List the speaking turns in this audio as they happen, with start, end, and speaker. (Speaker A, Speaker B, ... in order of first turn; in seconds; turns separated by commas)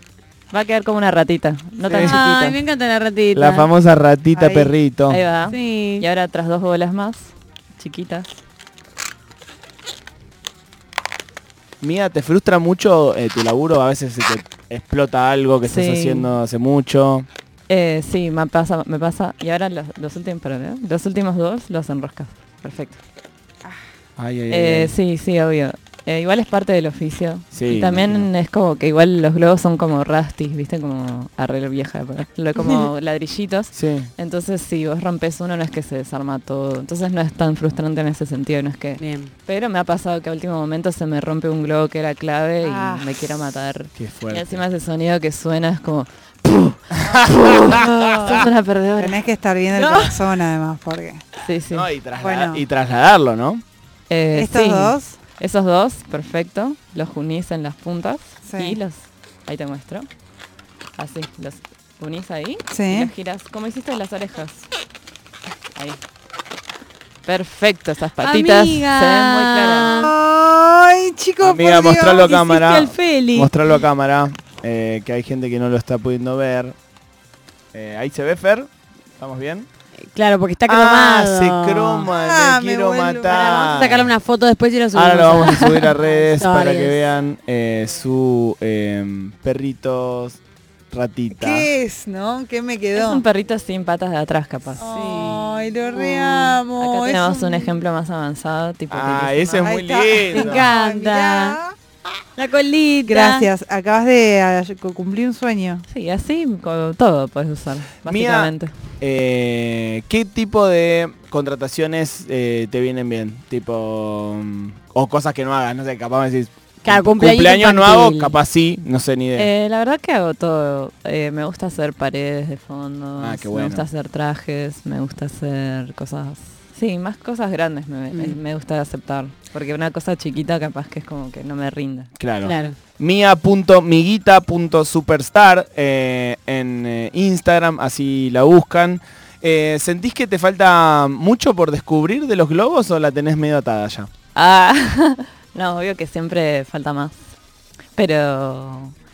Speaker A: 0.5-2.6, Speaker B: 1.9-2.2, Speaker C: 2.0-3.7, Speaker D: 3.3-5.2, Speaker B: 4.3-4.7, Speaker A: 5.1-8.3, Speaker C: 5.5-6.0, Speaker D: 11.8-17.3, Speaker A: 15.6-16.3, Speaker A: 17.7-23.0, Speaker D: 24.2-24.9, Speaker A: 24.5-49.2, Speaker D: 27.5-28.3, Speaker D: 33.7-34.1, Speaker C: 39.0-39.3, Speaker B: 42.6-43.0, Speaker D: 44.0-44.6, Speaker D: 47.0-47.9, Speaker B: 47.8-48.5, Speaker B: 49.0-51.4, Speaker A: 49.8-50.1, Speaker A: 51.4-51.9, Speaker D: 51.7-53.6, Speaker B: 52.2-52.6, Speaker A: 54.1-60.1, Speaker B: 54.4-55.2, Speaker B: 58.5-58.8, Speaker A: 61.0-64.7, Speaker B: 62.7-63.1, Speaker A: 65.8-66.0, Speaker A: 67.2-70.0, Speaker C: 68.2-70.1, Speaker B: 70.0-72.3, Speaker D: 71.4-76.8, Speaker C: 72.2-73.5, Speaker D: 77.7-79.7, Speaker C: 80.0-82.1, Speaker D: 80.7-84.1, Speaker B: 82.1-83.7, Speaker C: 83.3-87.0, Speaker D: 84.9-90.4, Speaker D: 90.9-91.7, Speaker B: 91.3-93.2, Speaker A: 93.0-94.9, Speaker B: 94.8-97.8, Speaker C: 94.8-96.6, Speaker A: 96.8-99.7, Speaker D: 98.9-100.7, Speaker B: 99.6-101.8, Speaker C: 100.3-101.6, Speaker C: 102.4-103.5, Speaker B: 103.1-105.9, Speaker A: 105.9-108.9, Speaker D: 108.0-119.5, Speaker C: 116.8-118.4, Speaker A: 119.4-132.1, Speaker D: 123.2-123.9, Speaker C: 128.1-128.4, Speaker D: 132.2-144.1, Speaker C: 132.4-132.8, Speaker A: 144.3-147.4, Speaker A: 147.9-148.9